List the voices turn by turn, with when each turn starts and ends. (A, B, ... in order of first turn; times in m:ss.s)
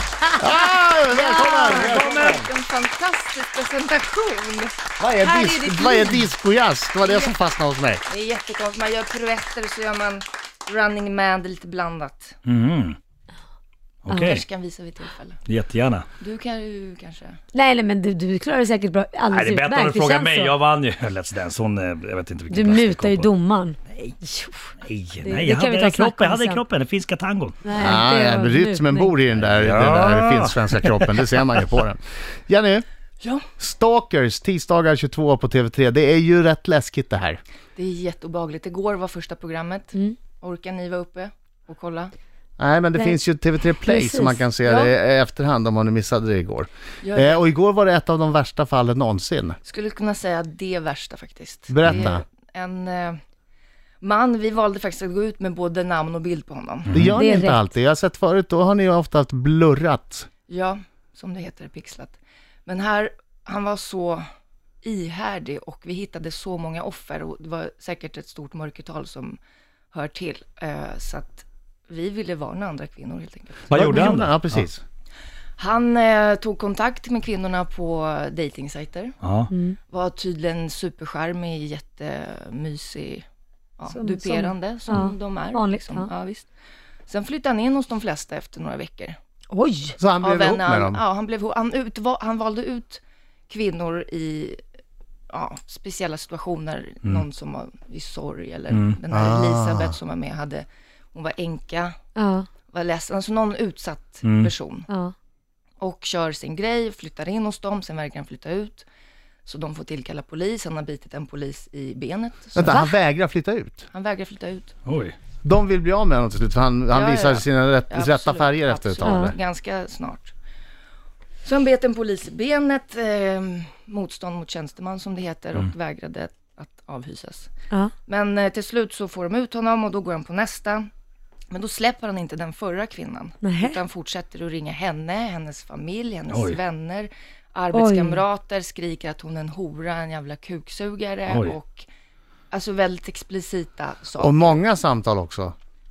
0:00.4-0:02.5 A
0:01.1-0:06.1 B
0:01.4-0:02.4 C
0:05.0-0:08.0 A
0:07.0-0:07.3 B
0:08.0-0:12.4 B
0:12.4-0:13.0 C
0:14.0-0:14.4 C
0:14.1-0:15.4 B
0:15.5-0:16.0 C
0:16.2-0:17.4 B
0:17.5-0:20.6 D
0:19.3-0:23.3 C
0:22.5-0:24.7 D
0:24.8-0:27.6 C
0:25.2-0:26.6 D
0:27.6-0:29.1 D
0:27.8-0:32.8 A
0:29.4-0:31.5 C
0:33.2-0:33.5 B
0:33.6-0:37.4 A
0:37.8-0:42.1 B
0:42.6-0:49.6 A
0:43.9-0:44.4 D
0:44.6-0:44.9 B
0:47.0-0:47.4 B
0:49.6-0:53.2 B
0:51.7-0:52.2 A
0:54.0-0:57.0 B
0:56.9-0:57.2 C
0:56.9-1:00.3 A
0:57.1-0:57.7 D
1:00.5-1:04.2 B
1:04.8-1:09.4 B
1:09.9-1:13.8 B
1:13.7-1:14.6 C
1:13.7-1:14.8 A
1:15.6-1:19.2 B
1:19.2-1:19.5 C
1:19.5-1:19.8 D
1:19.9-1:23.2 B
1:23.8-1:26.5 B
1:23.9-1:26.1 D
1:27.1-1:29.2 B
1:29.5-1:30.0 D
1:30.0-1:31.0 A
1:30.2-1:34.6 B
1:35.3-1:42.0 B
1:38.7-1:39.0 C
1:39.1-1:40.0 A
1:42.2-1:42.5 D
1:42.7-1:44.9 B
1:44.2-1:44.5 C
1:44.9-1:45.1 D
1:45.8-1:48.8 B
1:49.4-1:52.8 B
1:52.6-1:53.8 A
1:52.6-1:52.9 D
1:53.9-1:54.7 B
1:54.8-1:55.2 C
1:55.4-1:59.3 A
1:56.9-2:00.3 B
1:59.0-1:59.3 D
2:01.4-2:07.5 B
2:08.0-2:10.9 B
2:11.5-2:21.9 B
2:13.4-2:13.8 D
2:16.3-2:16.6 C
2:17.7-2:18.2 D
2:22.5-2:24.6 B
2:24.2-2:25.5 A